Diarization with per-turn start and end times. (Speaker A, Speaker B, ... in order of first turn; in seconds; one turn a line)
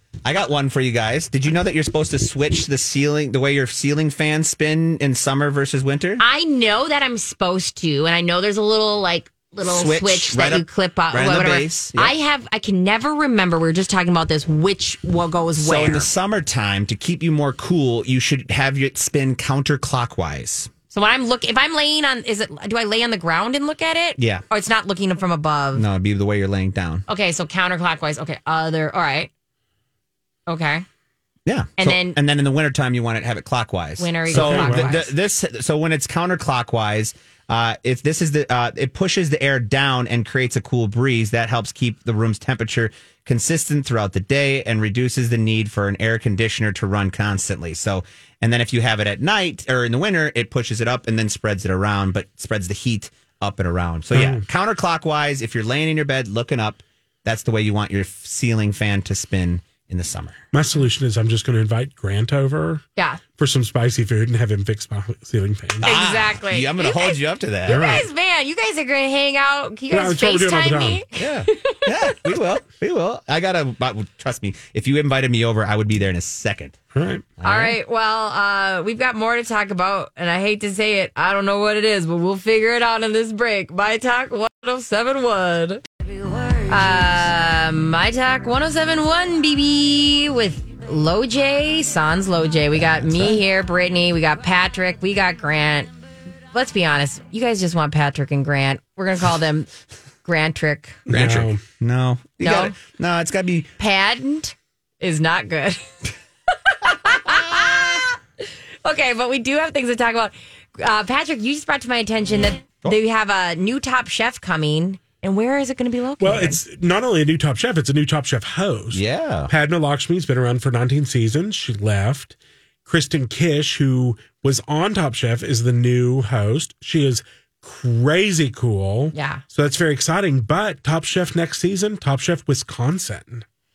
Speaker A: 0.2-6.2
Speaker B: 6.2-16.1
Speaker A: 9.6-12.1
Speaker A: 15.6-20.7
Speaker B: 20.9-25.8
Speaker A: 24.2-24.4
Speaker A: 25.7-27.0
Speaker B: 27.1-29.3
Speaker B: 30.5-30.8
Speaker A: 31.4-60.4
Speaker B: 31.8-32.2
Speaker B: 34.0-35.1
Speaker C: 34.3-34.9
Speaker C: 54.1-54.4
Speaker C: 60.5-62.8
Speaker C: 63.4-65.8
Speaker B: 65.8-72.1
Speaker A: 65.8-68.0
Speaker C: 67.7-68.0
Speaker C: 69.9-71.0
Speaker A: 71.2-76.8
Speaker C: 76.9-77.3
Speaker A: 77.4-77.8
Speaker B: 77.4-85.8
Speaker B: 86.7-95.9
Speaker A: 93.1-93.4
Speaker B: 96.5-99.7
Speaker B: 100.2-101.0
Speaker C: 101.1-101.6
Speaker A: 101.1-103.7
Speaker B: 102.4-102.8
Speaker B: 103.8-105.8
Speaker B: 106.6-108.2
Speaker B: 108.8-116.6
Speaker C: 116.2-122.3
Speaker A: 118.9-119.5
Speaker C: 122.8-133.4
Speaker B: 129.1-129.4